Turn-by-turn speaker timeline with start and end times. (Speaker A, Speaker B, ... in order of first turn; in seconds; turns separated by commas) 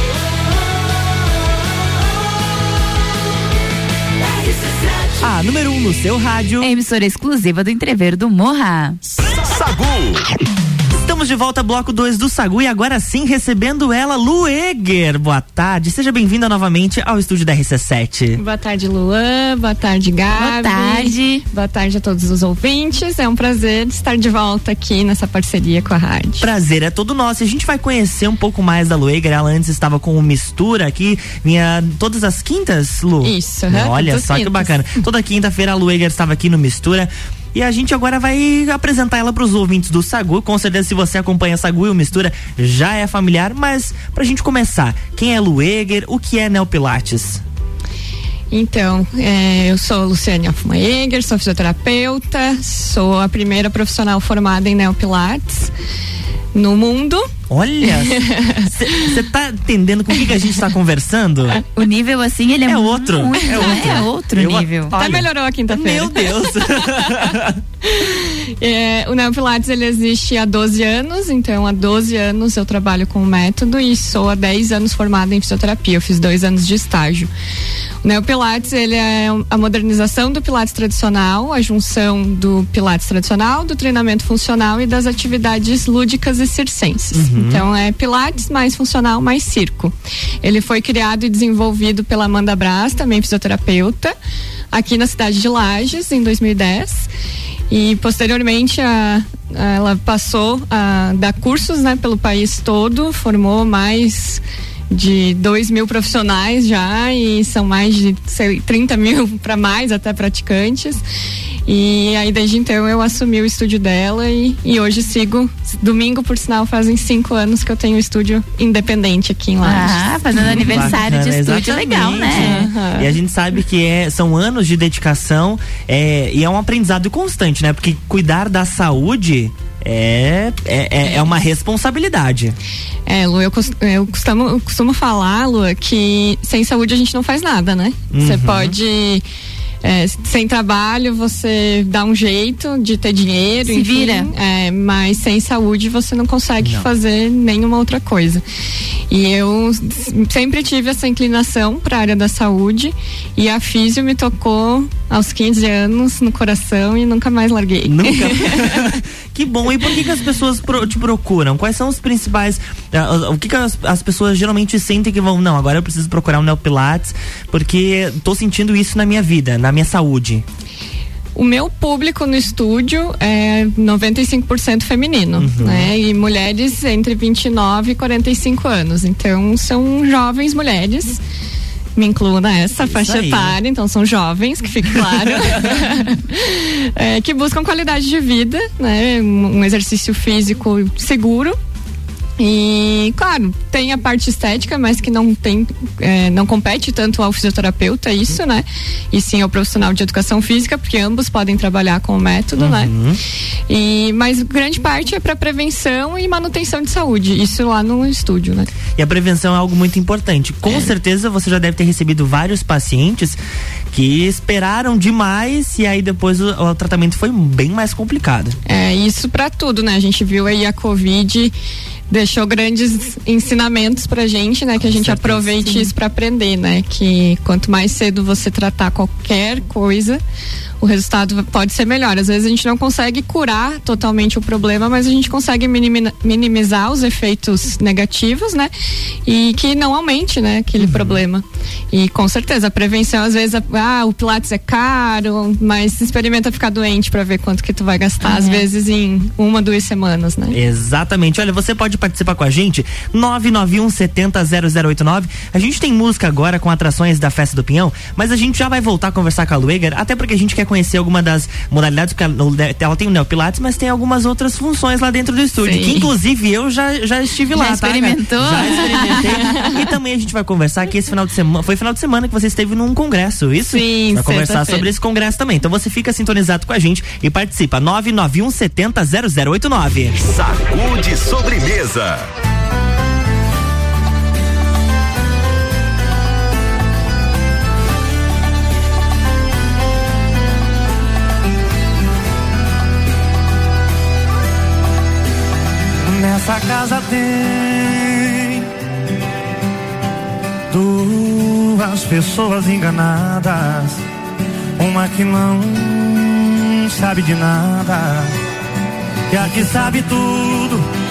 Speaker A: 5.2-6.7, Speaker B: 6.6-9.0, Speaker C: 9.4-10.2, Speaker A: 10.9-18.4, Speaker D: 18.4-26.4, Speaker B: 20.4-21.4, Speaker A: 26.4-47.4, Speaker D: 33.2-35.0, Speaker D: 48.5-55.7, Speaker D: 56.5-57.3, Speaker A: 57.5-61.6, Speaker D: 57.8-59.0, Speaker B: 61.7-64.9, Speaker A: 62.7-67.6, Speaker D: 63.5-63.9, Speaker D: 64.9-77.3, Speaker D: 78.0-94.1, Speaker A: 87.1-87.7, Speaker D: 94.7-97.1, Speaker D: 97.7-111.0, Speaker D: 111.7-120.9, Speaker B: 119.6-122.7, Speaker A: 120.3-132.6, Speaker D: 122.3-123.1, Speaker D: 133.1-139.2, Speaker A: 138.1-138.8, Speaker D: 139.8-148.4, Speaker B: 143.7-144.3, Speaker A: 146.6-146.9, Speaker D: 149.1-158.9, Speaker A: 157.8-170.4, Speaker D: 171.3-181.2, Speaker A: 175.4-175.9, Speaker D: 181.9-191.6, Speaker A: 182.9-183.6, Speaker A: 184.9-185.8, Speaker D: 192.4-202.9, Speaker A: 202.6-203.2, Speaker D: 203.7-208.7, Speaker A: 208.9-213.4, Speaker A: 213.9-218.6, Speaker D: 218.7-221.5, Speaker D: 222.1-230.2, Speaker A: 224.8-225.9, Speaker D: 230.8-238.7, Speaker D: 239.2-250.6, Speaker A: 240.8-241.2, Speaker B: 248.2-248.6, Speaker A: 250.5-280.1, Speaker D: 265.6-266.1, Speaker B: 267.5-269.6, Speaker D: 269.1-269.7, Speaker D: 273.7-274.9, Speaker C: 280.1-282.3, Speaker E: 296.0-298.6, Speaker E: 300.7-304.0, Speaker E: 304.8-308.3, Speaker E: 309.3-310.8